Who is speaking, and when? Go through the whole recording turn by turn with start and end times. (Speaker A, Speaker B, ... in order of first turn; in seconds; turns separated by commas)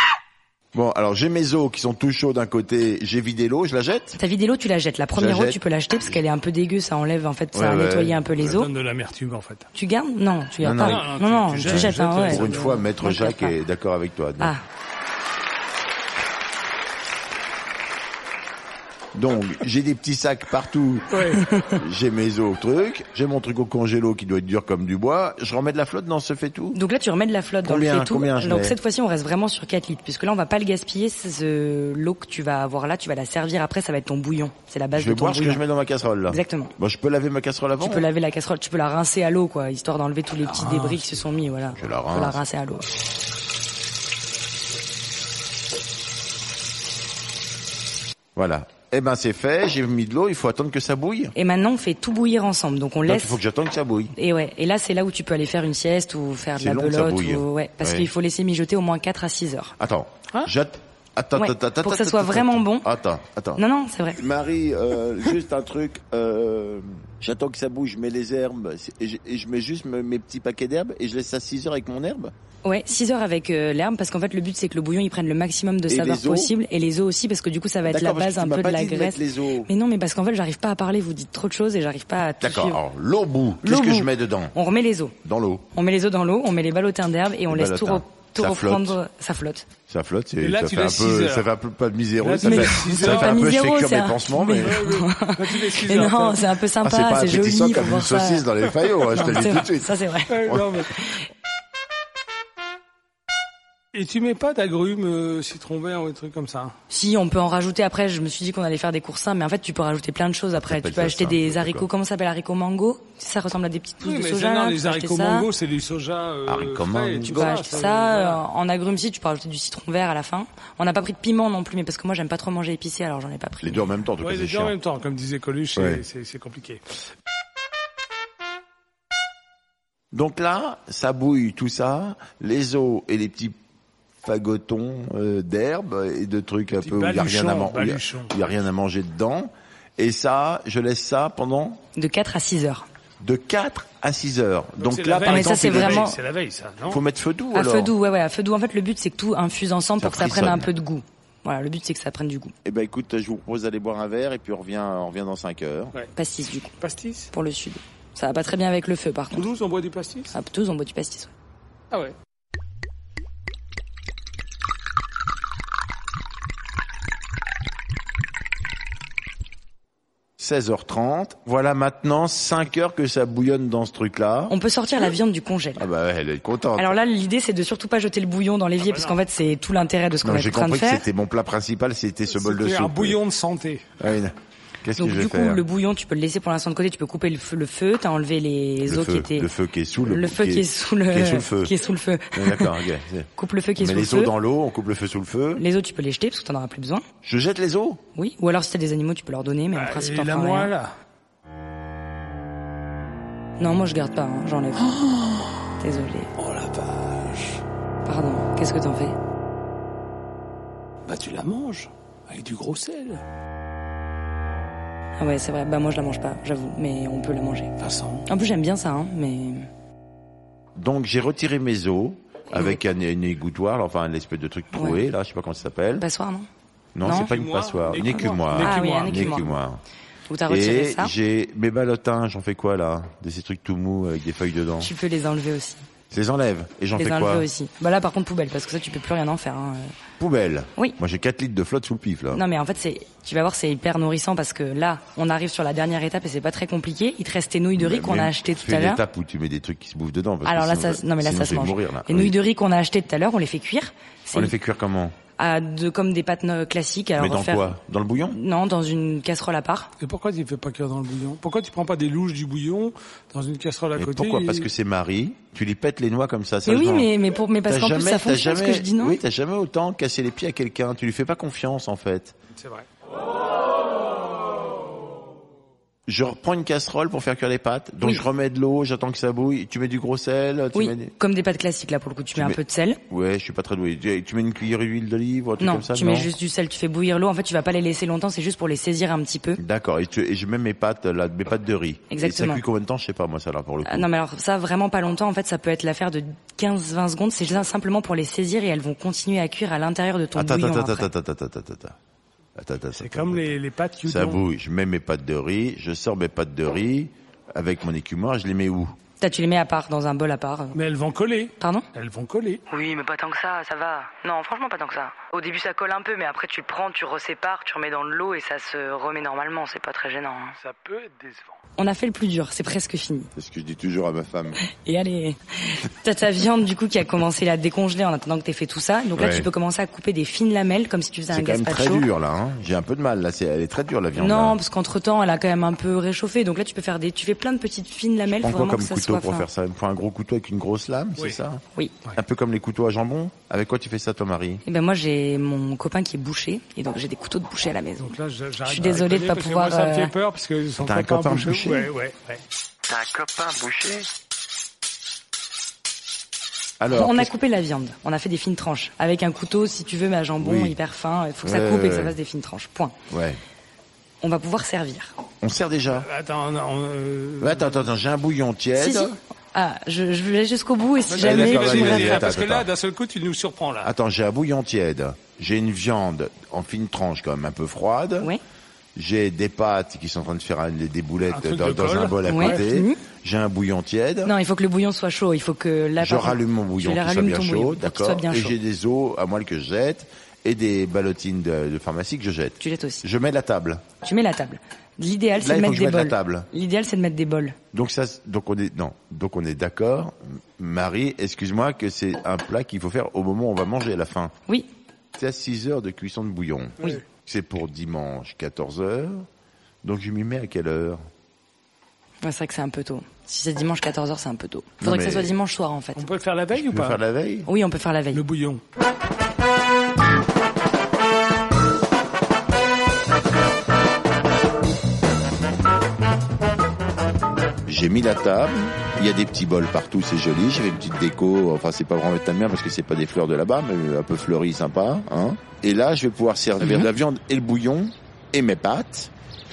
Speaker A: 0.7-4.2, Speaker B: 4.1-8.7, Speaker A: 5.1-6.2, Speaker A: 7.5-8.6, Speaker C: 8.4-9.7, Speaker B: 9.7-13.6, Speaker A: 10.6-11.1, Speaker C: 10.8-12.8, Speaker A: 11.6-14.5, Speaker A: 19.1-26.8, Speaker C: 21.1-21.5, Speaker B: 21.3-21.8, Speaker B: 26.7-35.6, Speaker A: 27.6-28.8, Speaker A: 34.9-38.1, Speaker B: 36.3-36.7, Speaker B: 37.8-42.9, Speaker C: 40.4-41.2, Speaker A: 41.8-42.4, Speaker A: 48.4-51.3, Speaker B: 51.3-53.4, Speaker A: 53.0-54.1, Speaker B: 54.1-59.8, Speaker A: 56.6-58.1, Speaker A: 59.8-63.6, Speaker B: 61.3-62.9, Speaker B: 63.6-64.2, Speaker A: 64.2-72.3, Speaker B: 72.6-82.8, Speaker A: 75.9-76.5, Speaker A: 77.8-79.7, Speaker A: 82.4-84.5, Speaker B: 83.6-85.1, Speaker A: 85.2-85.7, Speaker B: 85.7-89.7, Speaker A: 87.5-89.0, Speaker A: 89.9-94.9, Speaker C: 90.4-91.5, Speaker C: 92.2-93.5, Speaker B: 92.4-98.5, Speaker C: 94.6-96.5, Speaker A: 96.8-100.7, Speaker B: 99.1-101.2, Speaker C: 100.3-100.9, Speaker C: 103.9-106.7, Speaker B: 106.9-115.5, Speaker A: 110.6-111.9, Speaker C: 114.0-118.4, Speaker A: 116.5-117.8, Speaker B: 117.2-123.9, Speaker A: 123.6-124.7, Speaker C: 124.2-126.8, Speaker A: 125.8-126.0, Speaker A: 130.1-133.6, Speaker A: 134.2-141.8, Speaker C: 136.8-138.4, Speaker B: 141.9-142.8, Speaker A: 143.2-146.1, Speaker C: 144.8-147.0, Speaker B: 145.2-146.2, Speaker A: 146.8-147.9, Speaker B: 147.5-152.5, Speaker A: 150.0-150.7, Speaker A: 152.6-155.9, Speaker B: 156.2-156.7, Speaker C: 156.8-157.3, Speaker B: 157.3-159.5, Speaker C: 159.3-160.3, Speaker B: 160.3-161.3, Speaker A: 170.4-174.5, Speaker B: 174.5-175.9, Speaker A: 175.8-176.9, Speaker B: 176.8-181.1, Speaker C: 178.8-179.2, Speaker A: 180.2-183.2, Speaker C: 182.3-183.8, Speaker A: 184.0-185.6, Speaker B: 185.0-189.5, Speaker A: 188.8-191.7, Speaker B: 190.0-192.8, Speaker A: 192.3-195.6, Speaker B: 193.3-194.3, Speaker B: 195.6-197.0, Speaker A: 197.2-198.0, Speaker B: 198.1-200.7, Speaker C: 199.7-200.9, Speaker B: 203.6-205.0, Speaker C: 204.7-205.7, Speaker B: 205.8-206.3, Speaker C: 206.4-207.6, Speaker B: 208.0-209.2, Speaker C: 211.1-213.2, Speaker B: 215.2-217.7, Speaker C: 217.8-218.3, Speaker B: 218.3-219.7, Speaker A: 220.8-226.1, Speaker B: 222.5-222.8, Speaker B: 224.7-225.0, Speaker B: 226.0-226.5, Speaker A: 226.9-229.8, Speaker B: 227.0-227.3, Speaker C: 227.1-229.4, Speaker B: 228.0-229.6, Speaker B: 230.3-231.1, Speaker A: 230.5-234.9, Speaker B: 234.8-235.9, Speaker A: 236.1-237.5, Speaker B: 236.9-239.9, Speaker A: 240.2-242.4, Speaker B: 242.3-249.0, Speaker A: 247.7-252.3, Speaker B: 250.4-254.5, Speaker A: 254.3-255.1, Speaker B: 255.4-257.8, Speaker A: 257.2-258.4, Speaker B: 258.3-259.9, Speaker C: 260.0-264.7, Speaker A: 263.9-267.1, Speaker B: 266.6-269.2, Speaker A: 267.7-272.4, Speaker C: 272.5-272.9, Speaker A: 276.1-281.1, Speaker B: 280.7-283.0, Speaker A: 282.3-286.3, Speaker B: 285.6-289.6, Speaker A: 289.6-294.1, Speaker B: 292.1-292.6, Speaker B: 293.8-301.1, Speaker A: 300.3-302.0, Speaker A: 302.6-303.5, Speaker C: 303.0-304.4, Speaker A: 304.1-308.9, Speaker B: 309.2-310.8, Speaker C: 310.7-312.6, Speaker B: 311.6-311.9, Speaker B: 312.7-320.6, Speaker C: 320.6-321.6, Speaker B: 321.8-323.3, Speaker A: 323.3-324.6, Speaker B: 324.6-332.1, Speaker A: 329.1-329.5, Speaker A: 331.3-334.6, Speaker B: 334.1-339.5, Speaker A: 338.4-341.6, Speaker A: 342.1-344.6, Speaker B: 344.6-350.1, Speaker C: 348.0-352.4, Speaker A: 350.8-351.9, Speaker A: 352.9-354.1, Speaker A: 356.8-357.3, Speaker B: 356.9-362.9, Speaker A: 360.4-360.8, Speaker A: 361.4-362.1, Speaker A: 363.1-363.4, Speaker B: 364.2-365.1, Speaker A: 365.4-366.1, Speaker C: 365.9-367.9, Speaker A: 367.4-369.2, Speaker B: 368.7-372.4, Speaker C: 371.1-373.9, Speaker A: 371.2-372.7, Speaker A: 373.8-378.3, Speaker A: 378.9-384.3, Speaker C: 381.3-382.6, Speaker B: 382.2-383.0, Speaker B: 384.2-388.6, Speaker A: 386.0-393.8, Speaker B: 392.6-393.0, Speaker B: 394.0-397.6, Speaker A: 395.4-396.5, Speaker A: 397.7-404.3, Speaker A: 405.1-409.2, Speaker A: 409.8-411.0, Speaker B: 412.2-416.1, Speaker A: 414.8-415.3, Speaker C: 415.9-417.0, Speaker A: 416.5-417.5, Speaker B: 417.5-418.2, Speaker C: 418.1-418.6, Speaker A: 427.6-439.1